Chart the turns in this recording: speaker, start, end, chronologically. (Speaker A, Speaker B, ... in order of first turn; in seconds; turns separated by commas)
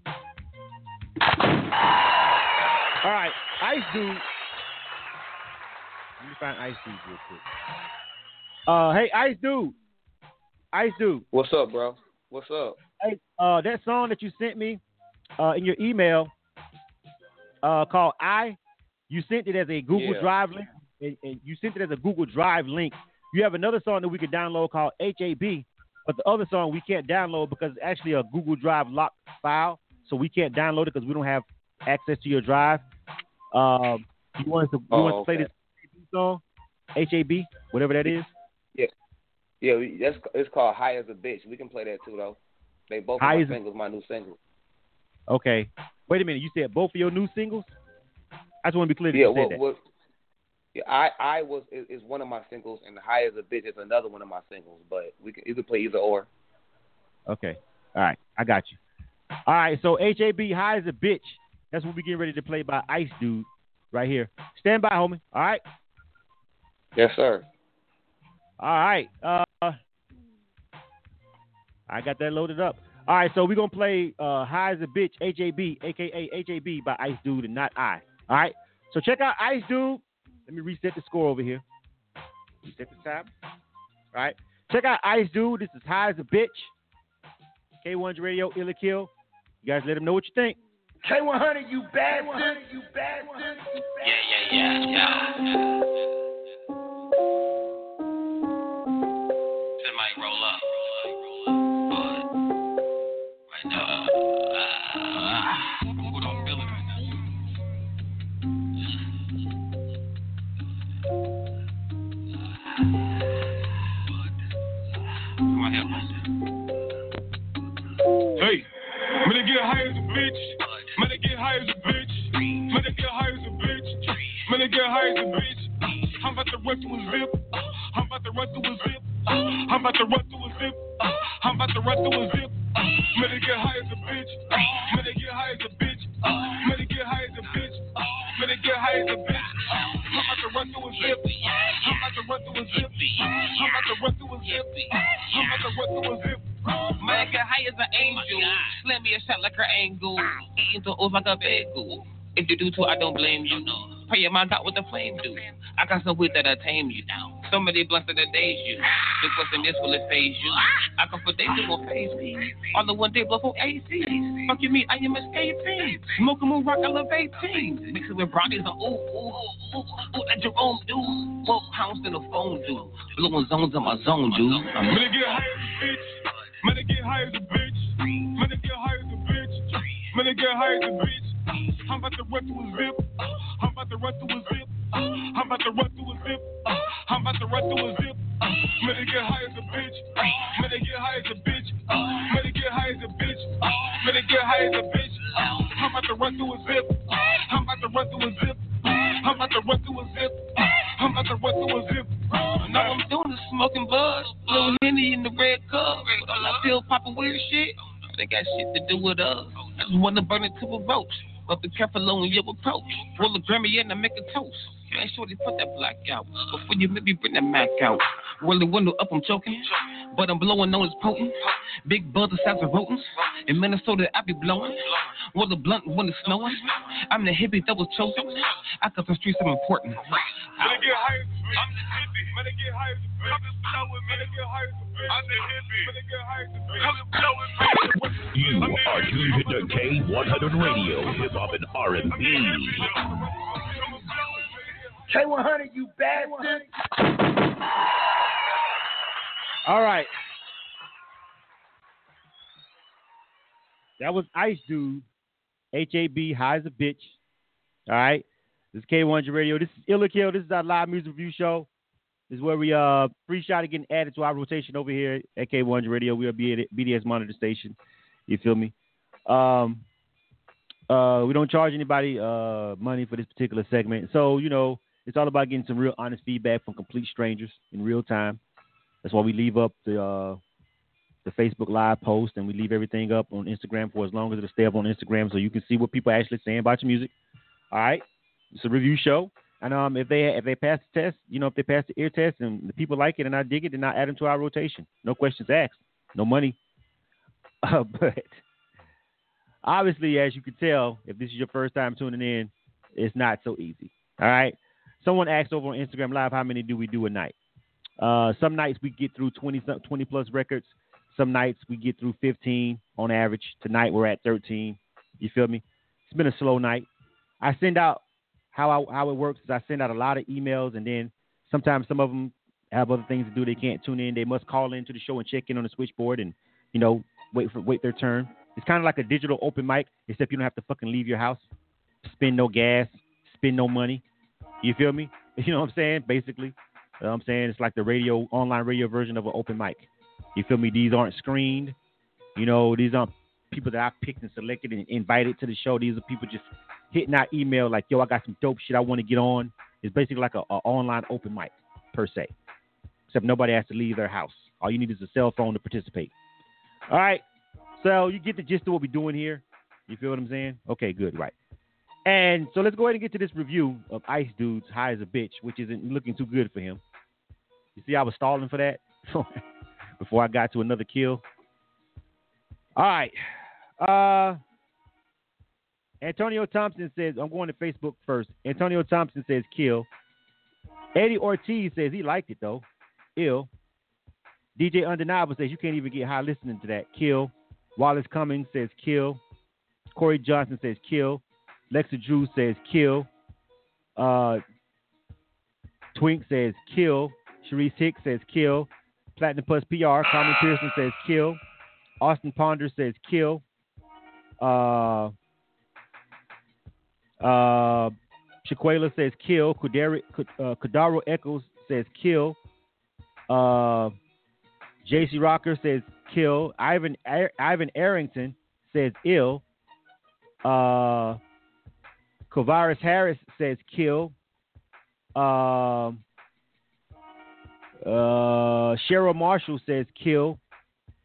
Speaker A: 3.0-4.2, Speaker A: 6.2-7.4, Speaker A: 8.7-9.7, Speaker A: 10.7-11.2, Speaker B: 11.3-12.8, Speaker A: 13.0-14.8, Speaker A: 15.4-16.3, Speaker A: 17.6-18.6, Speaker A: 19.1-32.8, Speaker B: 19.9-20.3, Speaker A: 33.5-36.4, Speaker B: 34.9-35.5, Speaker A: 37.0-38.3, Speaker B: 39.6-42.4, Speaker B: 42.9-44.4, Speaker A: 43.2-43.6, Speaker A: 45.3-47.8, Speaker A: 48.6-49.6, Speaker B: 49.1-49.8, Speaker B: 50.8-56.3, Speaker A: 57.3-58.8, Speaker A: 59.5-65.6, Speaker B: 67.0-67.5, Speaker A: 68.6-69.8, Speaker A: 71.9-81.6, Speaker A: 82.7-83.3, Speaker A: 84.1-86.7, Speaker A: 87.8-89.1, Speaker A: 89.6-90.6, Speaker C: 91.0-94.2, Speaker D: 94.2-95.5, Speaker D: 99.8-101.1, Speaker D: 103.5-105.5, Speaker D: 106.1-107.0, Speaker D: 115.5-116.0, Speaker E: 118.4-146.6, Speaker D: 141.1-141.9, Speaker D: 143.0-143.8, Speaker D: 144.5-145.4, Speaker D: 146.8-175.1, Speaker E: 174.8-183.0, Speaker E: 183.6-203.0, Speaker D: 202.5-230.2, Speaker E: 230.6-237.0, Speaker E: 237.6-237.9, Speaker F: 238.2-242.9, Speaker E: 238.6-239.9, Speaker E: 242.2-244.1, Speaker C: 245.1-246.7, Speaker A: 249.7-250.1, Speaker A: 254.0-255.0, Speaker A: 255.7-257.2, Speaker A: 257.9-261.7, Speaker A: 262.3-267.8, Speaker A: 268.3-268.7, Speaker A: 269.3-269.8, Speaker A: 270.9-278.4, Speaker A: 279.0-280.4, Speaker A: 281.2-287.1, Speaker A: 287.7-296.6, Speaker A: 297.6-298.4, Speaker A: 299.6-307.3, Speaker A: 308.0-316.9, Speaker A: 317.4-318.0, Speaker A: 318.5-331.5, Speaker A: 332.0-334.0, Speaker A: 334.6-341.8, Speaker A: 342.4-352.3, Speaker A: 353.1-356.1, Speaker A: 356.9-357.2, Speaker A: 357.8-361.3, Speaker A: 362.1-366.8, Speaker A: 367.8-369.4, Speaker A: 370.0-371.2, Speaker A: 372.8-373.2, Speaker A: 373.8-374.4, Speaker A: 376.0-379.9, Speaker A: 380.9-382.6, Speaker A: 383.2-383.5, Speaker A: 384.6-389.2, Speaker A: 389.9-393.1, Speaker A: 394.0-394.4, Speaker A: 395.9-401.4, Speaker A: 402.0-403.4, Speaker A: 404.4-405.1, Speaker A: 407.2-412.4, Speaker A: 413.3-413.9, Speaker A: 414.9-419.4, Speaker A: 420.4-421.2, Speaker A: 422.3-424.1, Speaker A: 425.1-426.0, Speaker A: 427.8-430.4